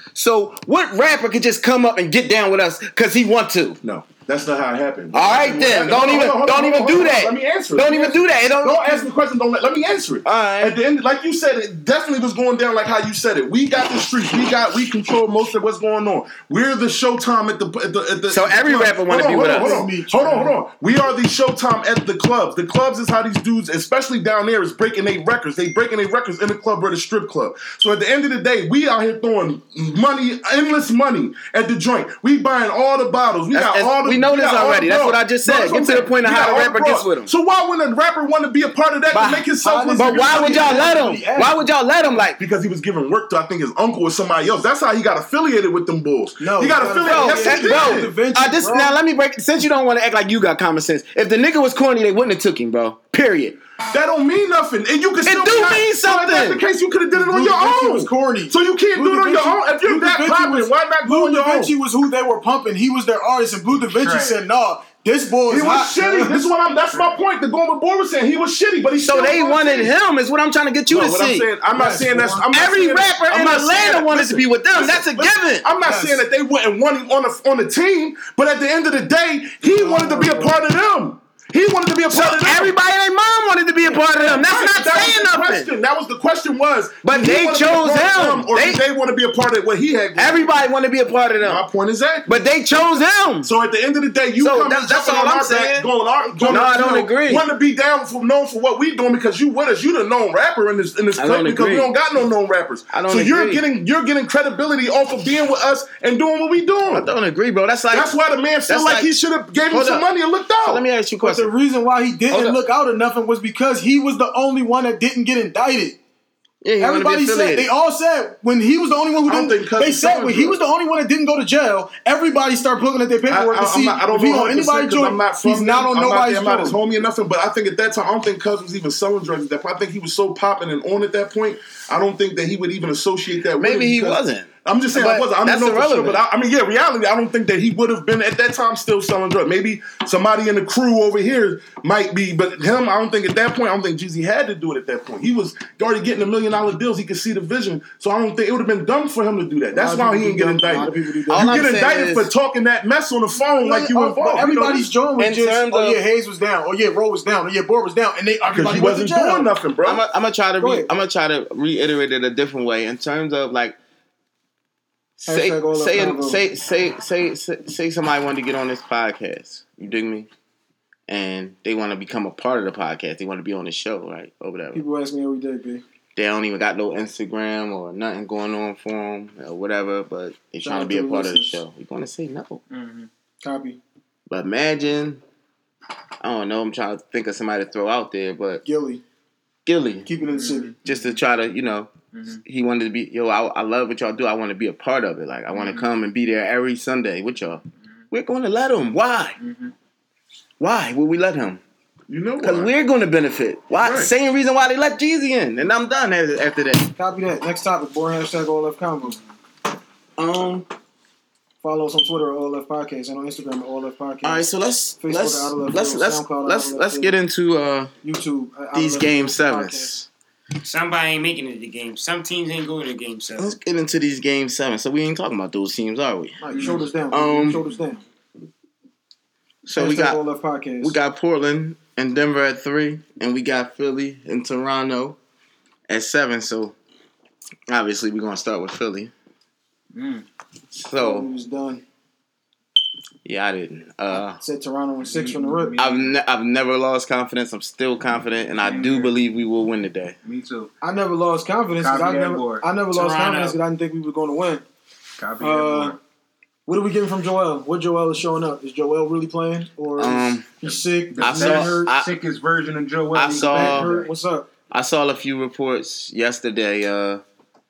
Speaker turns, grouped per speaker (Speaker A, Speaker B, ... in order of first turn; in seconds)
Speaker A: 0.1-3.8, 5.1-9.1, 10.2-10.8, 18.3-19.9, 33.5-37.3, 39.1-42.4, 47.0-53.6, 55.2-56.6, 69.0-71.5, 72.5-75.7, 82.1-85.7, 87.1-88.8, 90.2-91.7, 92.3-93.5, 94.4-97.5, 101.2-101.9, 102.9-103.7, 106.8-108.2, 108.7-109.1, 109.7-110.1, 110.6-111.5, 112.3-112.6, 116.6-117.7, 133.6-136.2, 151.3-152.3, 155.2-156.0, 159.8-163.8, 165.2-170.3, 171.1-174.8, 176.2-182.6, 184.3-185.2, 186.2-188.6, 189.7-190.1, 190.8-199.4, 200.6-201.6, 202.4-206.9, 210.2-210.7, 214.2-217.9, 218.7-220.1, 223.4-226.4, 227.1-227.6, 229.7-230.2, 230.8-235.2, 235.9-236.8, 237.7-239.1, 240.7-241.3, 243.2-244.4, 245.8-250.2, 260.0-260.5, 261.2-262.1, 263.1-263.9, 264.7-267.2
Speaker B: 3.8-40.9, 42.4-48.3, 53.9-61.7, 65.5-69.9, 70.9-82.7, 83.9-90.6, 91.4-92.4, 93.4-107.1, 107.9-110.8, 119.3-120.6, 123.3-155.0, 158.5-160.0, 202.1-202.7, 203.7-204.1
Speaker C: 19.4-20.6, 39.5-41.6, 46.4-49.0, 57.1-66.5, 71.7-72.5, 75.8-76.2, 79.6-80.6, 96.3-96.6, 111.2-116.0, 116.8-126.8, 149.7-151.6, 153.6-159.5, 160.6-160.9, 165.3-166.4, 174.7-175.8, 180.6-181.6, 183.4-183.8, 188.6-189.0, 190.1-190.8, 207.0-209.2, 211.6-214.4, 215.0-217.2, 218.0-219.9, 226.4-228.0, 229.8-231.0, 241.0-241.8, 244.4-245.8, 250.8-254.6, 255.4-256.0, 256.7-261.9, 263.3-264.5
Speaker D: 63.9-64.4, 182.7-183.1, 190.3-191.1, 192.1-192.4, 195.5-195.9, 199.4-199.7, 226.5-226.8, 239.9-240.3, 245.0-246.2, 248.6-249.1, 250.2-250.7, 251.8-252.7, 255.2-256.0, 261.1-264.1
Speaker E: 220.6-223.6, 252.9-253.6